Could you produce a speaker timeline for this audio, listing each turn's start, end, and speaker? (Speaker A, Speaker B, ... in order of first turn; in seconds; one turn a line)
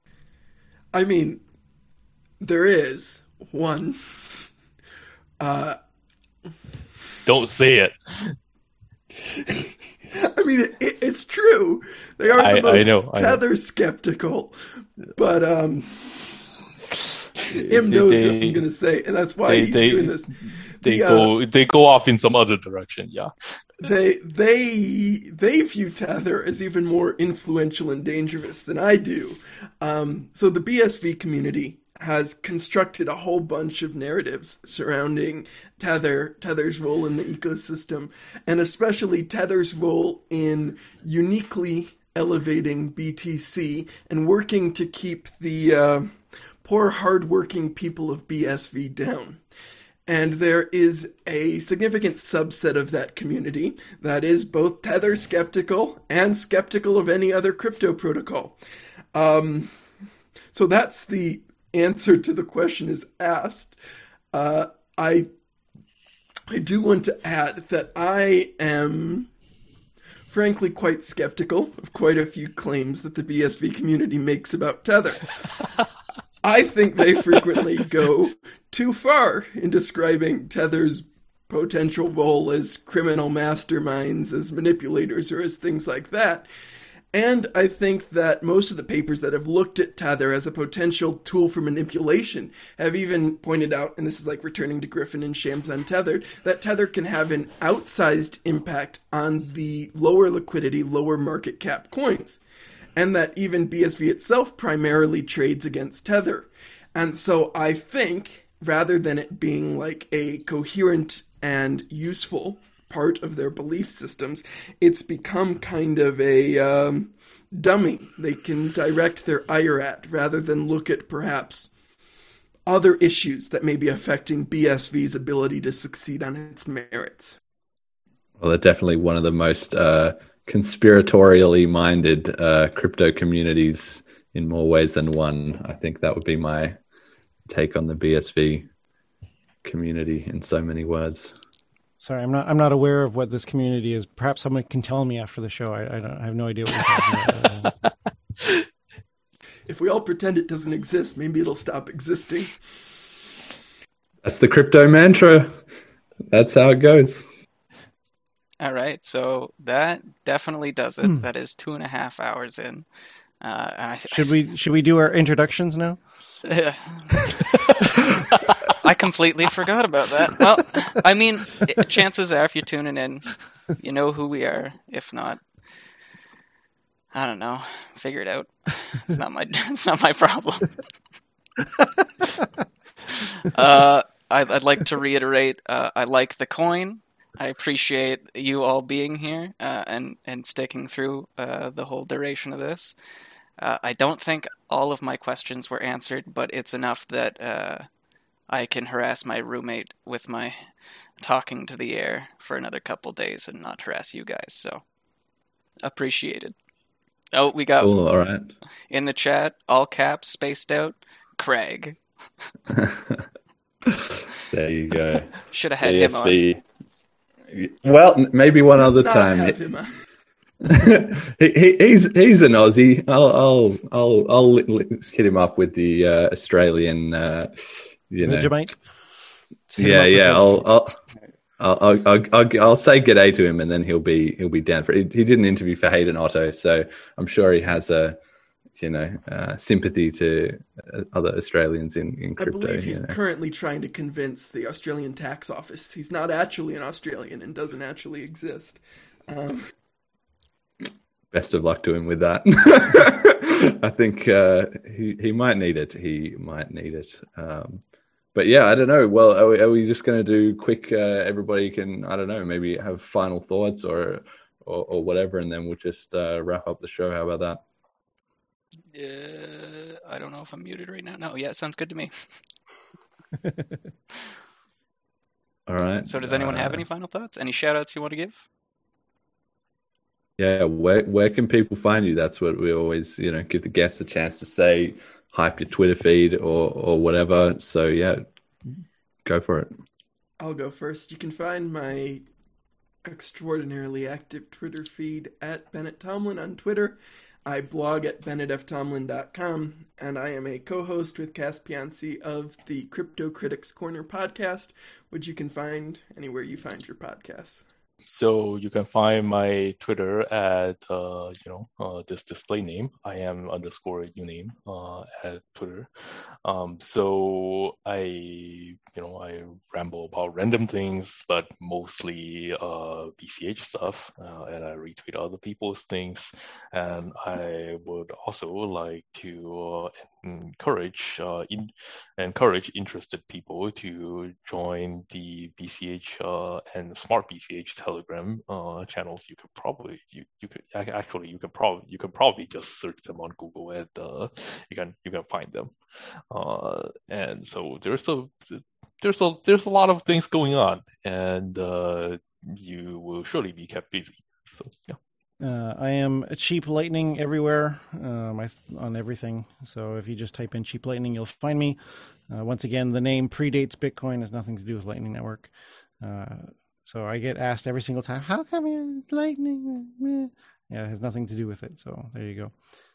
Speaker A: 0.9-1.4
Speaker A: 2.4-4.5
Speaker A: 5.4-5.8
Speaker B: 7.2-8.3
Speaker A: 9.2-14.6
Speaker B: 12.3-13.4
Speaker A: 15.1-16.4
Speaker B: 17.4-18.6
Speaker A: 17.6-21.3
Speaker B: 19.4-23.3
Speaker A: 23.8-49.4
Speaker A: 50.0-58.6
Speaker A: 59.1-59.7
Speaker A: 60.5-63.8
Speaker A: 64.3-65.3
Speaker A: 66.5-69.3
Speaker A: 70.3-75.4
Speaker A: 76.4-86.5
Speaker A: 87.1-102.4
Speaker A: 103.0-121.7
Speaker A: 122.7-127.4
Speaker C: 128.4-136.8
Speaker C: 137.5-138.7
Speaker C: 139.6-141.3
Speaker D: 142.0-147.8
Speaker A: 149.7-152.6
Speaker C: 154.2-155.5
Speaker C: 156.3-157.2
Speaker E: 158.6-162.8
Speaker E: 163.4-164.4
Speaker D: 164.1-166.0
Speaker E: 166.4-175.4
Speaker E: 177.1-180.8
Speaker E: 183.1-192.9
Speaker E: 193.6-197.9
Speaker E: 198.5-200.7
Speaker E: 201.2-204.8
Speaker E: 205.8-206.5
Speaker E: 207.3-207.9
Speaker C: 207.8-208.5
Speaker E: 208.9-212.0
Speaker C: 212.7-213.2
Speaker C: 213.8-216.6
Speaker E: 215.4-216.4
Speaker C: 217.5-219.6
Speaker A: 218.8-219.9
Speaker C: 220.6-227.5
Speaker C: 228.1-228.5
Speaker D: 228.2-228.9
Speaker D: 229.7-230.6
Speaker C: 229.8-230.9
Speaker C: 231.6-238.2
Speaker C: 238.8-243.2
Speaker A: 242.4-249.7
Speaker C: 251.3-257.8
Speaker C: 258.3-267.6
Speaker E: 268.9-272.3
Speaker C: 275.7-276.8
Speaker E: 276.0-278.4
Speaker C: 280.4-288.2
Speaker C: 289.2-289.7
Speaker A: 290.4-292.2
Speaker A: 293.0-307.6
Speaker B: 308.1-355.0
Speaker D: 355.4-372.5